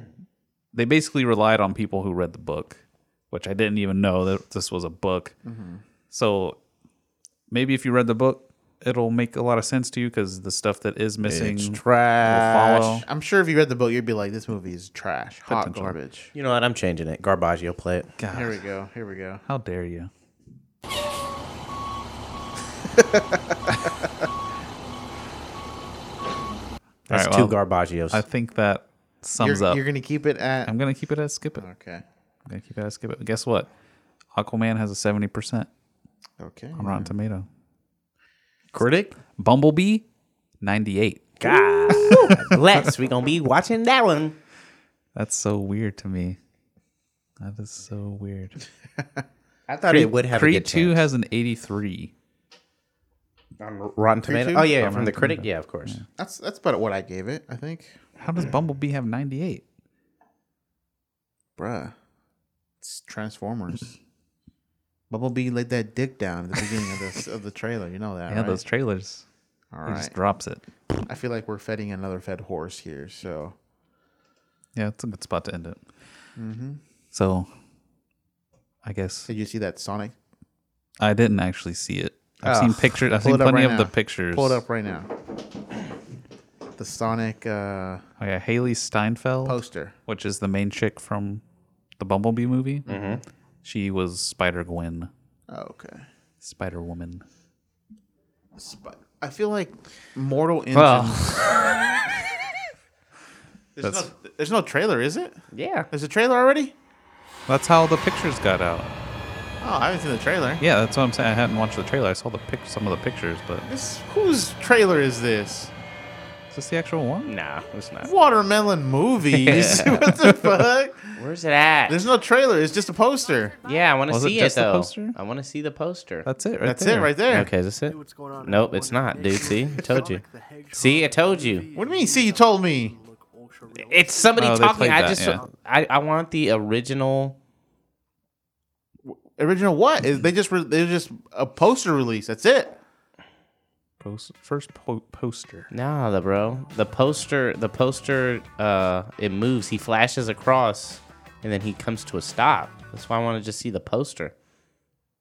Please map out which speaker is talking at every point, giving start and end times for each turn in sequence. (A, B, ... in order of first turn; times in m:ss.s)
0:00.7-0:05.3 A
0:05.4-0:05.8 B
0:06.1-0:06.6 A
0:07.5-0:13.0 A
0:11.2-0:12.9 C
0:12.3-0:16.3 B
0:15.5-0:16.0 A
0:16.3-0:18.1 C
0:18.2-0:18.6 A
0:18.3-0:19.4 B
0:19.4-0:20.1 A
0:22.9-0:23.9 B
0:27.1-0:27.6 A
0:27.1-0:28.2 C
0:28.1-0:29.8 A
0:29.4-0:30.7 B
0:30.6-0:31.6 A
0:31.6-0:32.0 B
0:32.5-0:33.7 A
0:34.3-0:35.7 A
0:36.4-0:37.1 B
0:36.8-0:37.5 A
0:38.7-0:39.1 C
0:39.3-0:40.0 A
0:40.6-0:42.6 A
0:41.4-0:44.4 C
0:45.1-0:46.4 A
0:47.4-0:48.6 A
0:49.7-0:51.0 C
0:49.9-0:52.1 A
0:53.6-0:56.0 C
0:54.2-0:54.7 B
0:54.7-0:56.0 A
0:56.2-0:57.9 B
0:58.2-0:59.6 A
1:01.6-1:01.9 B
1:02.8-1:04.0 B
1:05.1-1:08.6 B
1:08.3-1:09.2 A
1:09.7-1:10.1 B
1:09.8-1:10.7 A
1:11.0-1:13.6 B
1:14.7-1:15.8 A
1:16.4-1:16.8 B
1:17.1-1:17.5 A
1:18.8-1:19.3 A
1:19.3-1:20.1 B
1:21.0-1:24.6 A
1:22.4-1:22.9 C
1:23.1-1:25.1 B
1:26.8-1:28.0 B
1:28.2-1:31.4 A
1:29.4-1:29.9 B
1:32.0-1:32.9 A
1:32.9-1:33.2 C
1:32.9-1:33.2 B
1:33.6-1:35.1 A
1:35.5-1:36.0 B
1:36.4-1:37.2 A
1:38.6-1:41.6 B
1:40.7-1:41.7 C
1:43.8-1:45.4 B
1:43.8-1:44.1 A
1:45.5-1:45.9 C
1:45.9-1:46.7 B
1:47.5-1:48.9 A
1:49.6-1:50.6 B
1:50.6-1:53.7 A
1:53.7-1:55.7 B
1:56.5-1:57.3 A
1:57.2-1:58.1 C
1:58.0-2:01.2 B
1:59.4-2:00.1 C
1:59.6-2:00.4 A
2:01.2-2:02.1 C
2:01.9-2:03.5 B
2:03.6-2:11.7 C
2:04.1-2:05.2 A
2:06.2-2:07.1 A
2:06.6-2:07.5 B
2:11.7-2:13.0 B
2:13.7-2:17.4 C
2:14.4-2:15.4 A
2:19.0-2:22.8 B
2:24.0-2:25.7 A
2:25.7-2:34.3 C